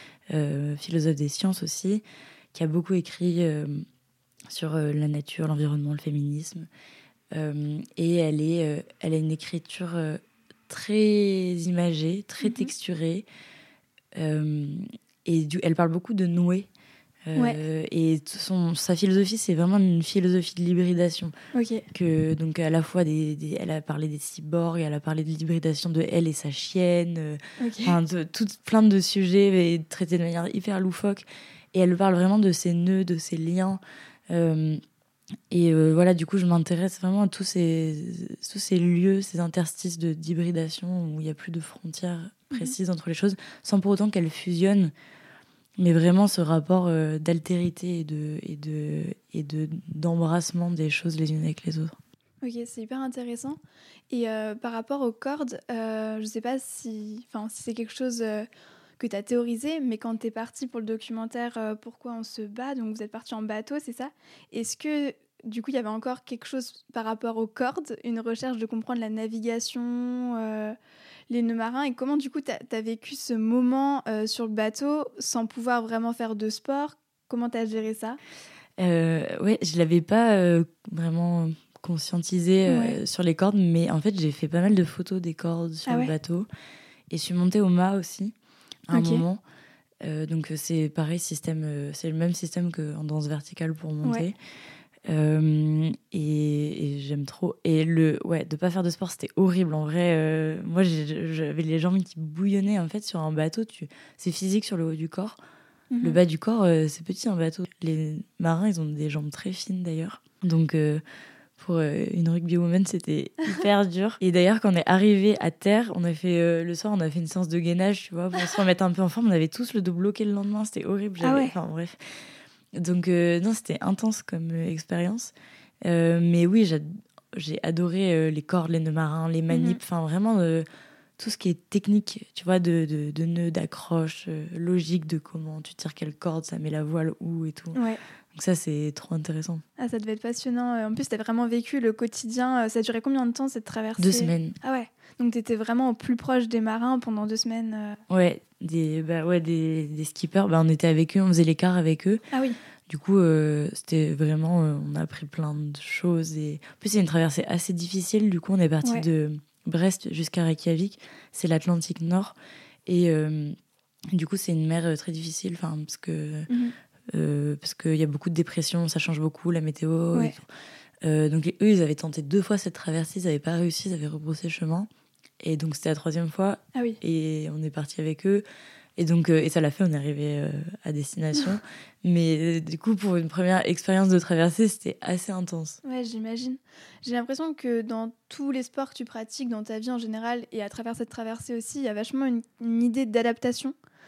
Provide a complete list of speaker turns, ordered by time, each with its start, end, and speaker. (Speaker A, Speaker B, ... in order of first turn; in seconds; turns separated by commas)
Speaker A: 0.3-3.9, Speaker A: 4.5-6.7, Speaker A: 7.3-13.3, Speaker B: 12.4-12.7, Speaker A: 14.2-16.7, Speaker A: 17.3-21.3, Speaker B: 21.5-21.9, Speaker A: 21.9-34.8, Speaker B: 27.6-28.0, Speaker A: 35.5-44.9, Speaker A: 45.8-52.0, Speaker B: 52.4-53.6, Speaker B: 54.1-58.5, Speaker B: 59.0-70.8, Speaker B: 71.3-78.2, Speaker A: 78.8-86.5, Speaker B: 82.6-83.0, Speaker B: 85.9-86.1, Speaker A: 87.1-88.3, Speaker A: 88.9-89.4, Speaker B: 88.9-89.2, Speaker A: 90.0-94.4, Speaker A: 95.1-105.4, Speaker B: 105.9-106.2, Speaker A: 106.0-111.0, Speaker A: 111.6-130.7, Speaker B: 121.2-121.5, Speaker B: 129.5-129.8, Speaker A: 131.2-137.8, Speaker B: 137.7-138.0, Speaker A: 138.3-139.6, Speaker B: 139.8-148.0, Speaker A: 144.0-144.6, Speaker A: 148.1-152.2, Speaker B: 152.3-152.6, Speaker A: 152.9-163.6, Speaker A: 164.1-166.5, Speaker B: 166.5-166.7, Speaker A: 167.1-170.5, Speaker A: 171.0-174.9, Speaker A: 175.4-178.4, Speaker A: 179.0-185.8, Speaker B: 185.8-193.8